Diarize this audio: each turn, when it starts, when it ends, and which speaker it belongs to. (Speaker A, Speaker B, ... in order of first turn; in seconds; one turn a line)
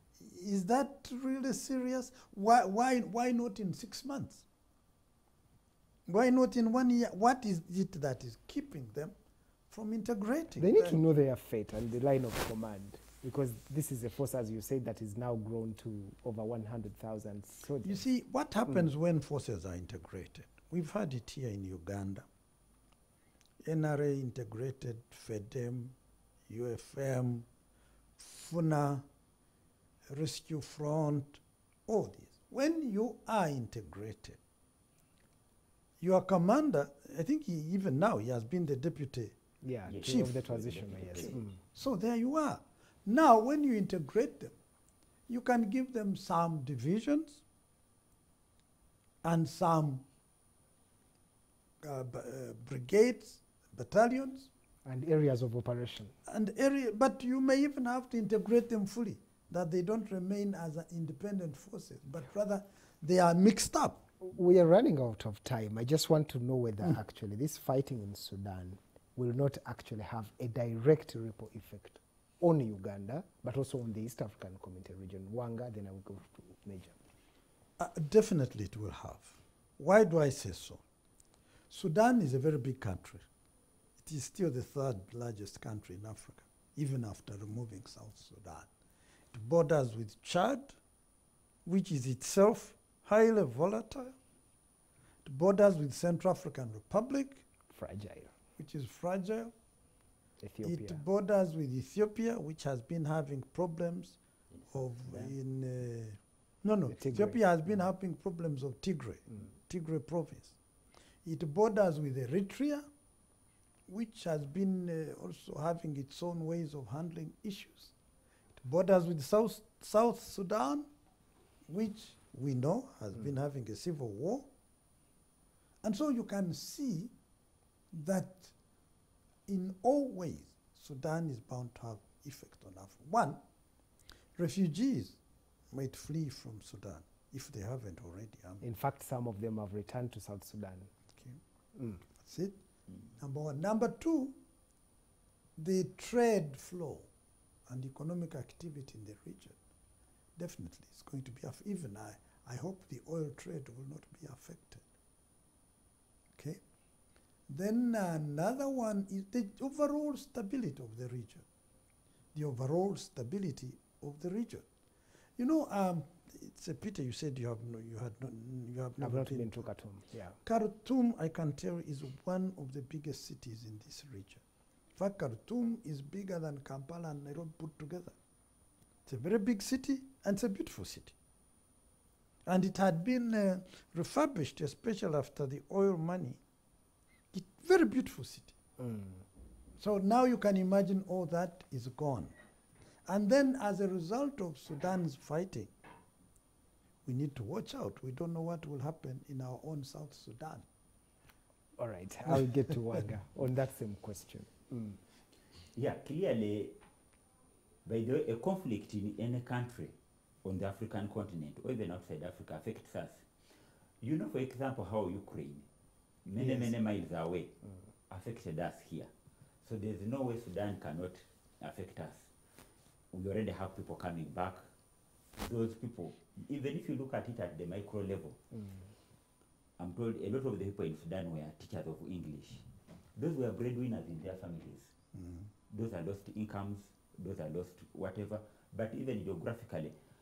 Speaker A: 0.2-4.5
Speaker A: 6.1-9.1
Speaker A: 9.7-11.0
Speaker B: 10.6-18.0
Speaker A: 17.8-22.3
Speaker A: 23.6-26.0
Speaker A: 26.5-27.5
Speaker A: 28.1-29.1
Speaker A: 30.1-34.4
Speaker A: 36.0-39.4
Speaker B: 39.6-41.6
Speaker C: 39.9-41.4
Speaker A: 40.0-40.5
Speaker A: 41.7-44.5
Speaker A: 45.3-47.4
Speaker A: 49.2-50.1
Speaker A: 51.8-54.5
Speaker B: 54.9-56.1
Speaker A: 56.3-64.0
Speaker B: 64.2-77.0
Speaker A: 77.8-80.8
Speaker A: 81.7-83.3
Speaker A: 84.0-88.7
Speaker A: 89.3-90.8
Speaker A: 91.7-94.1
Speaker A: 95.2-97.5
Speaker B: 97.7-98.3
Speaker A: 98.6-99.5
Speaker B: 100.4-101.0
Speaker A: 100.6-104.2
Speaker A: 104.7-110.6
Speaker B: 106.9-107.4
Speaker A: 111.2-112.8
Speaker A: 113.9-117.9
Speaker A: 118.6-120.9
Speaker A: 121.7-124.5
Speaker A: 125.8-127.1
Speaker A: 127.9-128.5
Speaker A: 129.5-133.4
Speaker A: 134.4-135.2
Speaker A: 135.7-138.6
Speaker B: 138.6-140.9
Speaker A: 142.2-142.6
Speaker A: 143.2-144.4
Speaker A: 145.6-147.1
Speaker A: 147.7-149.6
Speaker A: 150.4-154.8
Speaker A: 156.4-156.6
Speaker A: 157.5-161.4
Speaker A: 162.3-164.7
Speaker A: 165.4-169.7
Speaker B: 169.0-170.4
Speaker A: 170.4-174.4
Speaker A: 175.0-178.1
Speaker A: 179.1-181.1
Speaker A: 182.5-186.4
Speaker A: 187.3-188.6
Speaker B: 188.8-189.2
Speaker A: 189.8-192.3
Speaker A: 193.1-195.7
Speaker A: 197.1-200.7
Speaker B: 201.8-205.0
Speaker C: 205.8-206.8
Speaker C: 207.8-213.2
Speaker C: 214.0-215.7
Speaker C: 216.2-217.5
Speaker C: 218.1-219.1
Speaker C: 219.6-222.3
Speaker C: 223.1-224.7
Speaker C: 225.4-228.4
Speaker C: 229.8-234.9
Speaker A: 235.1-235.5
Speaker C: 235.7-239.9